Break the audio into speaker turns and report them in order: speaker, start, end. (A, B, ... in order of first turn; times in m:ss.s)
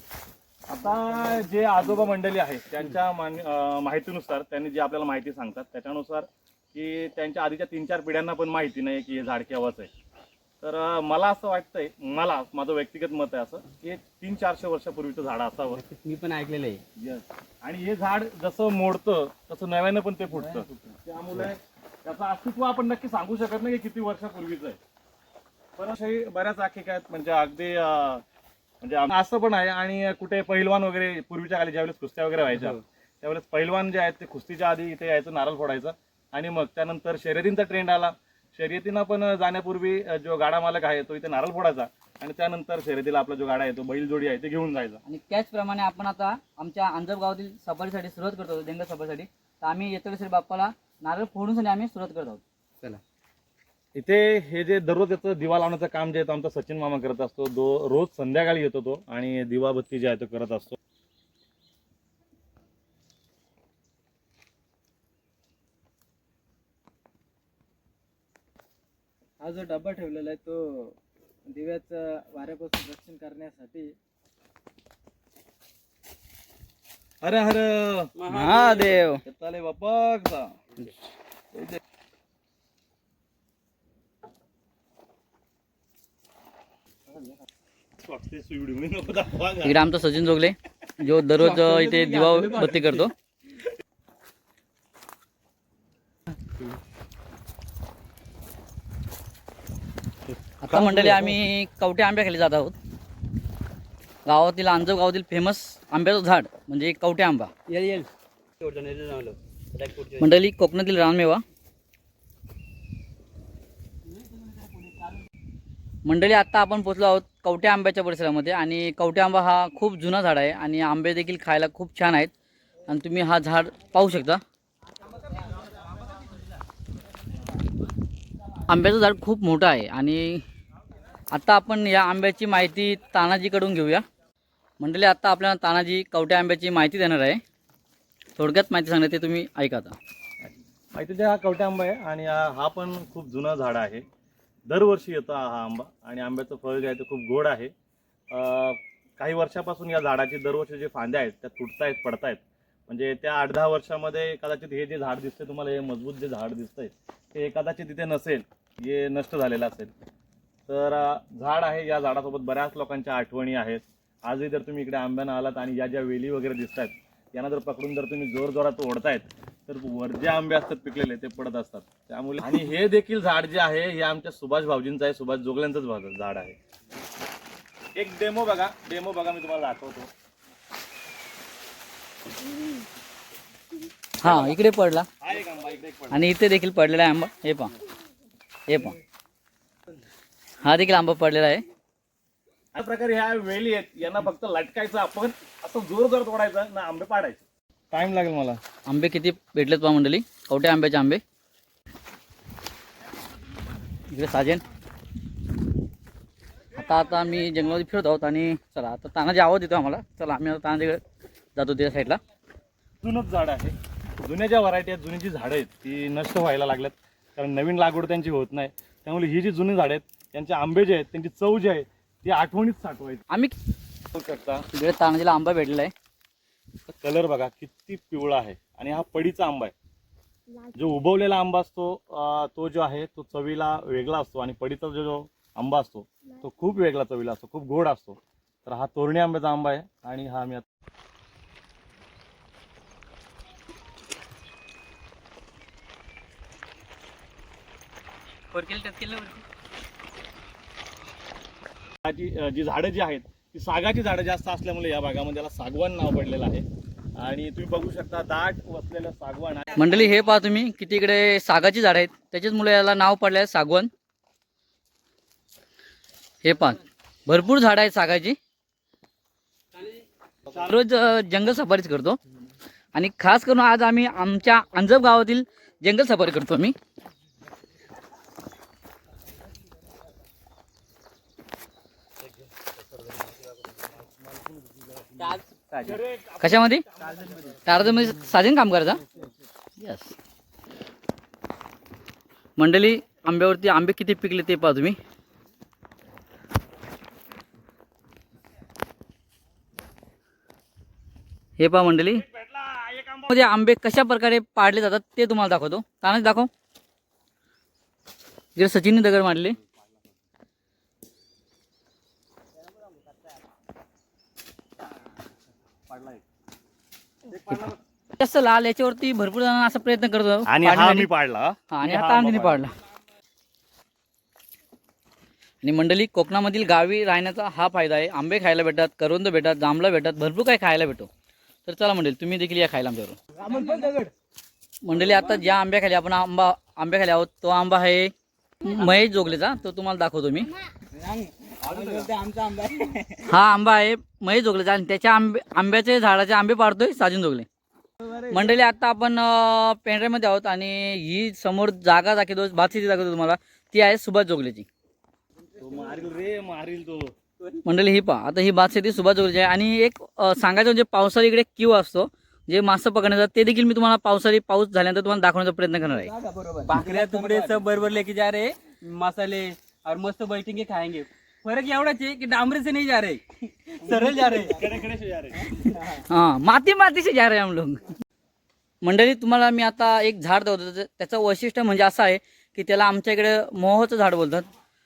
0:00.7-0:09.9 A
0:10.6-0:15.8 A
0:15.7-0:16.8 B
0:17.0-0:24.8 A
0:25.8-0:28.2 A
0:28.8-0:45.0 A
0:32.5-0:32.8 B
0:45.1-0:52.4 C
0:54.0-1:00.8 A
1:09.4-1:11.0 D
1:11.5-1:14.0 D
1:17.2-1:18.2 A
1:18.2-1:18.7 B
1:18.3-1:19.2 C
1:18.7-1:20.5 A
1:21.5-1:21.8 A
1:28.0-1:29.8 A
1:29.6-1:33.1 C
1:31.4-1:33.1 B
1:40.6-1:42.7 C
1:40.7-1:41.4 A
1:44.2-1:47.5 C
1:47.7-1:48.1 B
1:48.6-1:50.3 B
1:50.2-1:51.4 C
1:56.0-2:02.3 C
2:02.9-2:04.4 C
2:08.7-2:10.4 C
2:11.3-2:14.0 C
2:14.8-2:17.4 C
2:18.4-2:20.0 C
2:20.4-2:24.0 A
2:24.7-2:27.7 A
2:28.3-2:39.9 A
2:40.7-2:56.6 A
2:58.0-3:00.1 A
3:04.2-3:05.1 C
3:04.2-3:04.6 A
3:05.2-3:06.3 A
3:06.1-3:07.7 C
3:08.7-3:09.0 C
3:10.6-3:11.6 C
3:12.8-3:18.6 A
3:18.8-3:21.2 C
3:24.1-3:24.6 C
3:26.8-3:31.0 C
3:31.6-3:32.2 C
3:33.0-3:43.2 A
3:44.1-3:44.7 A
3:44.7-3:45.9 C
3:47.0-3:49.7 A
3:50.7-4:00.6 A
4:08.5-4:09.4 B
4:12.0-4:19.7 A
4:19.8-4:23.9 C
4:26.4-4:28.4 C
4:30.5-4:30.8 A
4:30.6-4:32.2 C
4:33.0-4:36.8 C
4:42.2-4:47.6 A
4:45.2-4:45.5 B
4:46.4-4:46.8 C
4:47.2-4:47.6 B
4:47.6-4:49.0 C
4:49.8-4:50.1 C
4:52.6-4:55.0 C
5:01.6-5:02.2 C
5:02.3-5:03.3 A
5:03.3-5:06.5 C
5:08.6-5:09.6 C
5:15.9-5:16.2 A
5:17.3-5:17.8 A
5:18.2-5:21.1 C
5:20.5-5:22.6 A
5:21.7-5:22.8 C
5:25.6-5:31.1 C
5:31.6-5:33.2 C
5:33.4-5:34.1 D
5:34.8-5:38.1 C
5:38.6-5:40.5 C
5:40.9-5:43.3 D
5:43.3-5:47.5 C
5:48.0-5:48.5 D
5:48.3-5:54.7 C
5:55.6-5:57.1 A
5:57.6-6:06.1 C
6:06.0-6:07.6 D
6:06.6-6:14.6 B
6:14.4-6:15.4 A
6:15.5-6:16.0 D
6:16.1-6:17.9 C
6:18.8-6:24.5 C